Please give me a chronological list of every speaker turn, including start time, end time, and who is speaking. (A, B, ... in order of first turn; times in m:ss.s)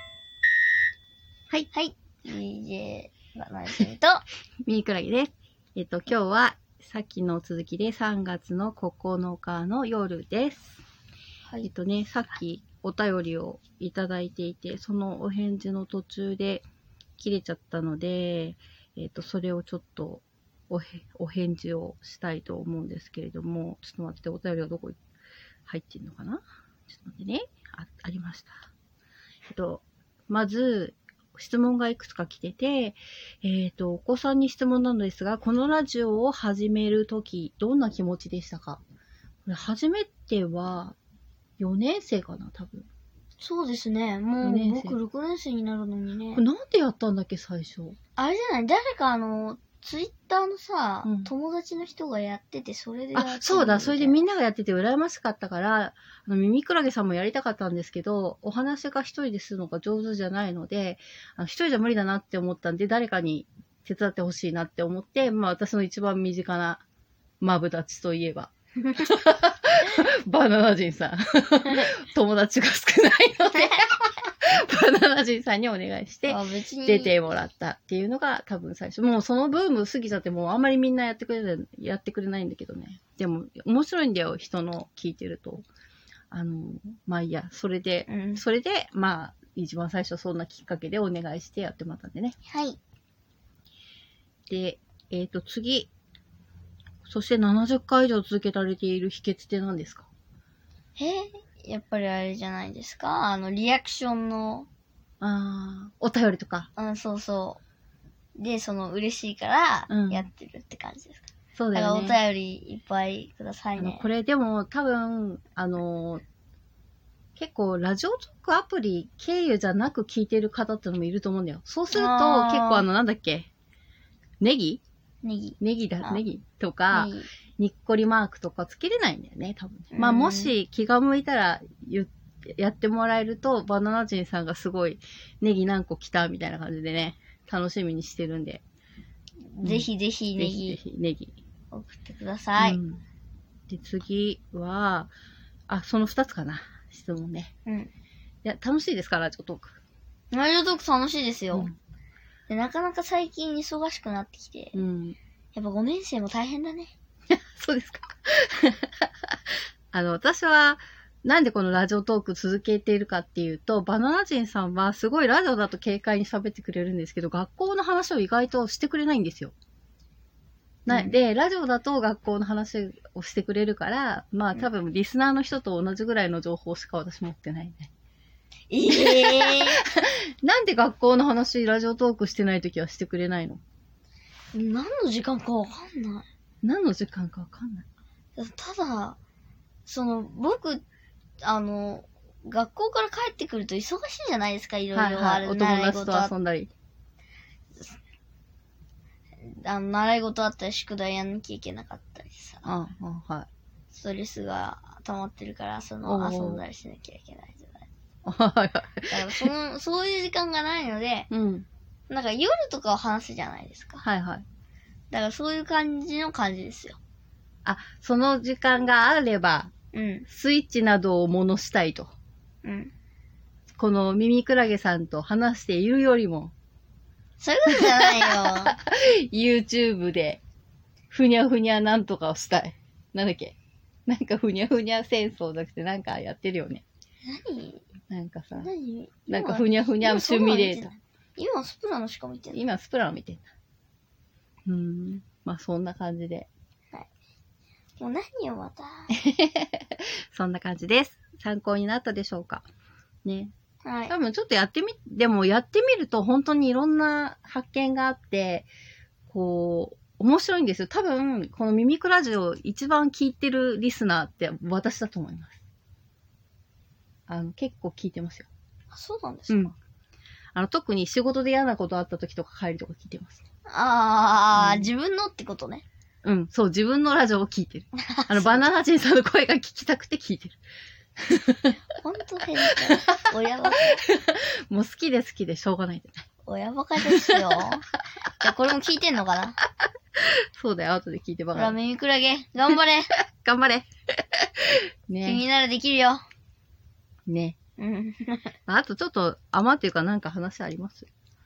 0:01.7-0:04.2 A
0:04.6-0:10.8 B
0:11.6-0:16.6 B
0:17.2-0:25.0 B
0:25.6-0:28.6 B
0:29.5-0:38.8 B
0:39.4-0:41.0 B
0:41.6-0:42.9 B
0:43.4-0:46.4 A
0:44.4-0:45.0 B
0:46.3-0:48.0 B
0:48.2-0:54.2 A
0:51.0-0:51.3 B
0:53.1-1:06.8 B
1:07.4-1:25.6 B
1:16.3-1:17.1 A
1:26.3-1:32.4 B
1:28.1-1:28.4 A
1:32.5-1:32.8 A
1:34.5-1:35.9 B
1:37.0-1:40.1 B
1:41.0-1:44.7 A
1:45.2-1:46.7 B
1:46.8-1:47.6 A
1:48.4-1:54.0 A
1:49.9-1:50.2 B
1:51.6-1:52.2 B
1:53.8-1:56.2 B
1:57.4-2:03.5 B
2:01.9-2:02.8 A
2:04.4-2:04.8 B
2:05.2-2:06.2 A
2:05.6-2:18.6 B
2:06.9-2:07.3 A
2:09.9-2:10.5 A
2:19.5-2:20.8 A
2:19.6-2:21.3 B
2:21.7-2:22.8 A
2:22.6-2:23.0 B
2:23.7-2:25.1 B
2:25.7-2:27.5 B
2:27.6-2:27.9 A
2:28.4-2:29.8 B
2:30.3-2:31.7 A
2:32.5-2:34.8 A
2:34.7-2:35.2 B
2:35.5-2:36.9 A
2:37.3-2:39.0 B
2:39.9-2:49.5 B
2:50.9-2:57.9 B
2:50.9-2:51.2 A
2:58.7-2:59.8 A
2:58.9-3:03.6 B
3:04.5-3:06.3 A
3:06.6-3:07.8 B
3:08.4-3:09.2 A
3:09.8-3:10.8 A
3:11.4-3:16.3 A
3:14.9-3:16.7 B
3:19.4-3:22.6 A
3:22.6-3:23.5 B
3:23.9-3:27.9 A
3:26.0-3:26.6 B
3:28.2-3:29.5 B
3:29.1-3:31.3 A
3:31.3-3:31.6 B
3:32.1-3:34.0 A
3:34.0-3:34.4 B
3:35.1-3:37.0 A
3:37.6-3:39.7 B
3:39.9-3:40.2 A
3:40.3-3:42.1 B
3:42.6-3:42.9 A
3:43.8-3:46.5 B
3:47.4-3:48.7 A
3:47.7-3:50.4 B
3:51.1-3:53.6 B
3:54.1-3:56.8 B
3:57.2-3:57.8 A
3:58.1-3:58.7 B
3:58.6-4:02.6 A
3:59.3-4:00.9 B
4:02.5-4:03.5 B
4:04.6-4:06.5 B
4:08.0-4:09.1 A
4:09.2-4:12.6 B
4:13.2-4:13.5 B
4:13.8-4:14.1 A
4:14.1-4:18.7 B
4:19.3-4:25.6 B
4:27.3-4:28.5 B
4:28.9-4:29.7 A
4:30.5-4:33.4 B
4:33.7-4:35.8 A
4:34.5-4:34.9 B
4:36.2-4:40.6 B
4:38.0-4:38.7 A
4:41.2-4:41.7 B
4:42.0-4:44.0 A
4:44.0-4:46.2 B
4:46.4-4:47.8 A
4:48.4-4:49.6 A
4:50.2-4:51.8 B
4:51.5-4:53.1 A
4:53.3-4:55.4 B
4:55.2-4:56.2 A
4:57.3-4:57.6 B
4:57.8-4:58.5 A
4:58.7-5:01.1 B